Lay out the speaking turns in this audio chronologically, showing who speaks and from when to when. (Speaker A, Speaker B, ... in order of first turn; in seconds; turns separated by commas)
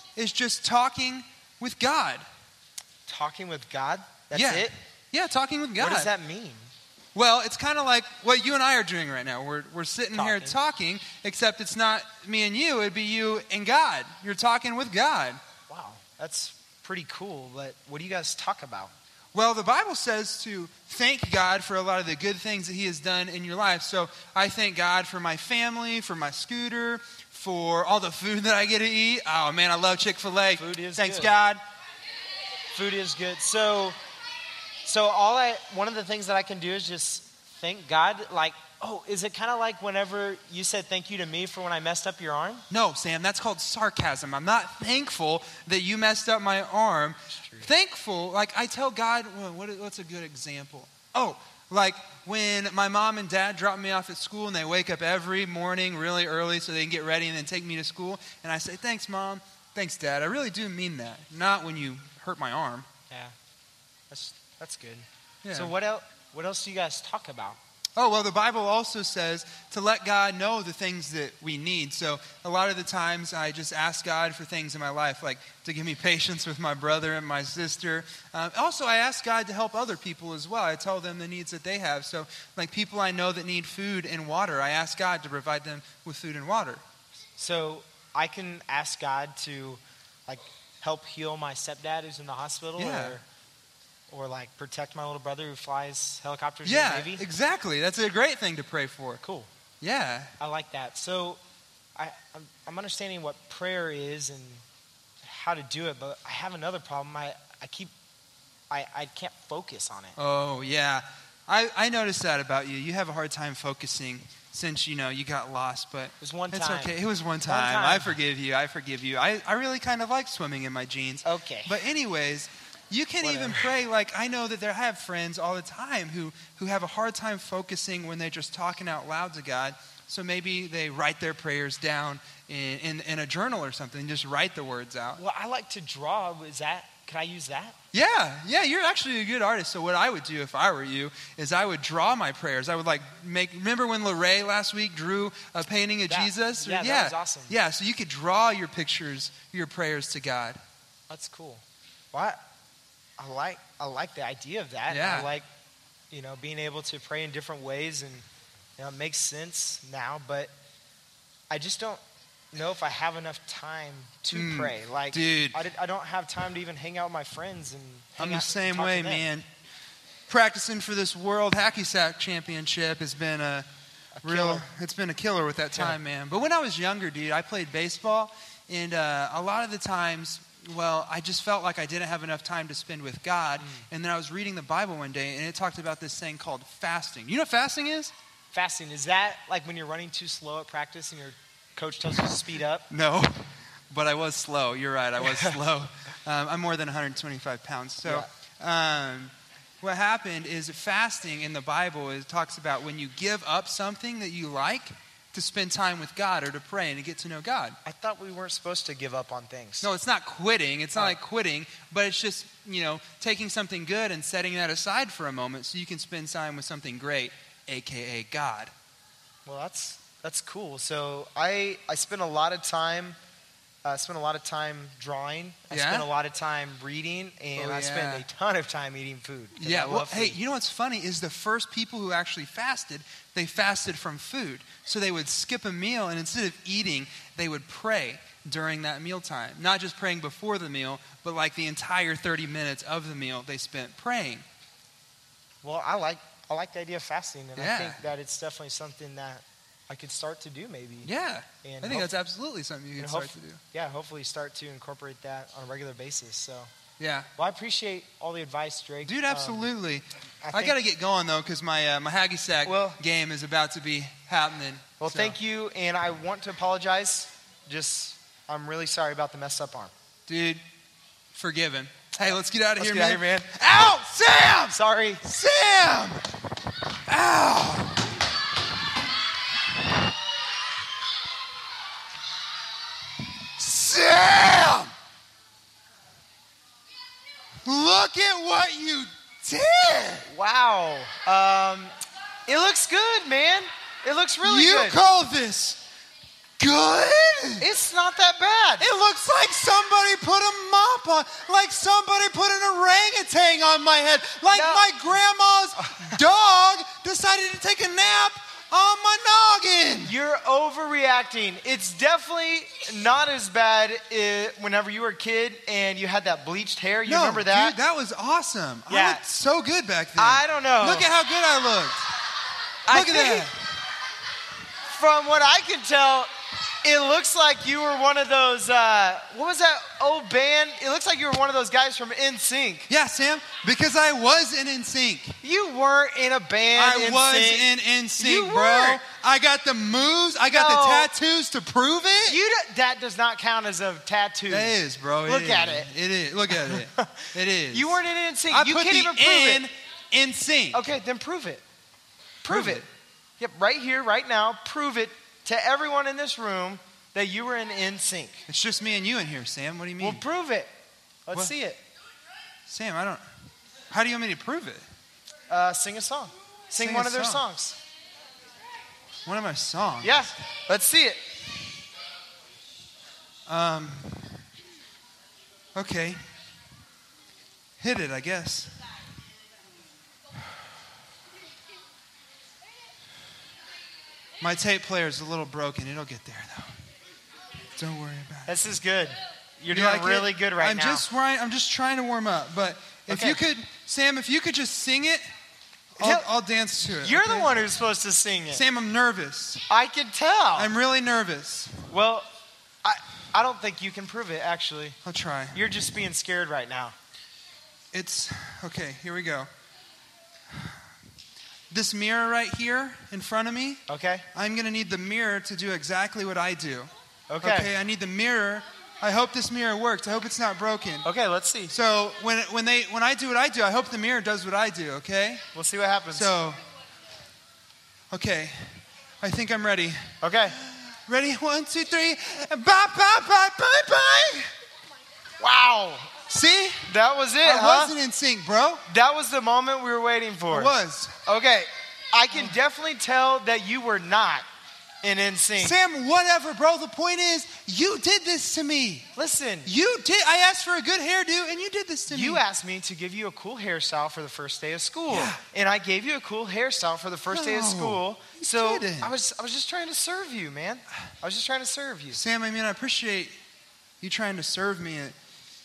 Speaker A: 0.2-2.2, Speaker B: 3.1-4.8, Speaker A: 4.3-6.1, Speaker B: 5.8-6.7, Speaker A: 7.1-15.4, Speaker B: 10.1-10.6, Speaker B: 15.7-18.9, Speaker A: 19.3-31.6, Speaker B: 30.6-31.4, Speaker B: 32.7-34.0, Speaker B: 34.8-42.6, Speaker A: 42.7-62.9, Speaker B: 47.3-47.7, Speaker B: 64.1-67.6, Speaker A: 65.4-65.7, Speaker A: 68.0-86.8, Speaker B: 87.4-93.2, Speaker A: 92.8-93.2, Speaker B: 94.1-97.2, Speaker A: 96.6-99.2, Speaker B: 99.2-99.5, Speaker A: 99.8-100.3, Speaker B: 100.4-101.4, Speaker B: 102.0-104.6, Speaker B: 105.2-107.9, Speaker B: 108.7-110.2, Speaker A: 110.2-135.2, Speaker B: 116.2-118.2, Speaker B: 121.2-121.8, Speaker B: 123.2-123.8, Speaker B: 135.1-137.8, Speaker A: 137.9-150.6, Speaker B: 146.1-147.6, Speaker B: 151.1-152.4, Speaker B: 153.2-155.5, Speaker A: 154.9-155.3, Speaker B: 156.1-158.2, Speaker B: 158.8-160.5, Speaker B: 161.5-162.0, Speaker B: 162.5-169.2, Speaker A: 164.3-165.6, Speaker A: 168.2-169.4, Speaker A: 170.3-173.7, Speaker B: 174.2-174.7, Speaker A: 174.2-188.1, Speaker B: 188.5-192.9, Speaker A: 192.9-207.8, Speaker B: 195.2-195.6, Speaker B: 207.8-209.9, Speaker A: 209.8-218.7, Speaker B: 219.4-223.2, Speaker B: 223.8-230.4, Speaker A: 225.7-226.1, Speaker A: 227.6-228.2, Speaker A: 229.6-244.4, Speaker B: 245.6-251.1, Speaker A: 247.6-248.0, Speaker A: 251.1-253.6, Speaker B: 251.6-252.1, Speaker B: 253.0-256.7, Speaker A: 257.0-257.3, Speaker B: 257.4-259.7, Speaker A: 259.1-265.4, Speaker B: 260.4-260.8, Speaker B: 262.6-263.0, Speaker B: 265.0-269.9, Speaker A: 270.3-270.6, Speaker A: 271.3-276.2, Speaker B: 272.8-273.6, Speaker B: 274.7-275.2, Speaker A: 277.1-278.1, Speaker A: 283.6-284.9, Speaker A: 287.6-290.3, Speaker B: 290.3-291.9, Speaker B: 292.5-295.0, Speaker A: 294.4-295.8, Speaker A: 296.6-297.7, Speaker B: 297.6-298.9, Speaker A: 298.8-310.1, Speaker B: 304.5-305.0, Speaker B: 310.0-317.8, Speaker A: 317.1-322.1, Speaker B: 318.9-319.2, Speaker B: 320.2-321.1, Speaker B: 322.9-323.5, Speaker A: 322.9-323.5, Speaker B: 324.9-326.3, Speaker B: 326.8-332.9, Speaker A: 332.9-335.4, Speaker B: 335.4-339.0, Speaker A: 336.7-342.4, Speaker B: 340.5-341.1, Speaker B: 342.2-345.9, Speaker A: 344.5-350.8, Speaker B: 346.5-349.7, Speaker B: 350.7-351.6, Speaker B: 352.4-352.9, Speaker A: 352.5-352.8, Speaker B: 353.4-358.4, Speaker A: 358.5-360.2, Speaker B: 360.0-360.7, Speaker B: 361.3-361.8, Speaker A: 362.7-363.2, Speaker A: 363.9-364.8, Speaker B: 365.5-367.8, Speaker A: 366.8-367.4, Speaker A: 369.3-370.3, Speaker B: 370.0-371.2, Speaker A: 373.5-374.4, Speaker A: 375.7-376.2, Speaker A: 377.8-378.8, Speaker A: 384.4-386.8, Speaker A: 387.7-388.6, Speaker B: 388.4-391.1, Speaker A: 389.7-395.2, Speaker B: 393.1-393.4, Speaker A: 395.9-397.5, Speaker B: 396.0-396.3, Speaker B: 396.9-398.6, Speaker A: 398.5-399.6, Speaker B: 399.7-400.7, Speaker A: 400.6-401.8, Speaker B: 401.9-402.3, Speaker B: 402.8-405.0, Speaker A: 405.1-405.6, Speaker B: 405.5-406.9, Speaker A: 407.9-409.5, Speaker A: 410.5-410.8, Speaker A: 411.7-413.8, Speaker B: 413.9-414.3, Speaker A: 414.3-416.9, Speaker B: 417.3-417.7, Speaker A: 417.4-421.1, Speaker B: 421.0-421.7, Speaker A: 421.7-425.4, Speaker B: 425.5-426.4, Speaker A: 426.1-426.6, Speaker A: 428.1-434.5, Speaker B: 430.2-430.6, Speaker B: 435.4-436.1, Speaker A: 436.3-436.9, Speaker B: 436.9-437.9, Speaker A: 437.4-438.8, Speaker B: 438.9-440.7, Speaker A: 440.5-441.1, Speaker B: 441.2-444.4, Speaker B: 445.0-445.8, Speaker A: 445.6-449.1, Speaker B: 449.2-449.7, Speaker A: 449.6-452.4, Speaker B: 452.1-462.2, Speaker A: 455.1-455.4, Speaker A: 457.3-459.1, Speaker A: 462.1-463.4, Speaker A: 464.0-465.1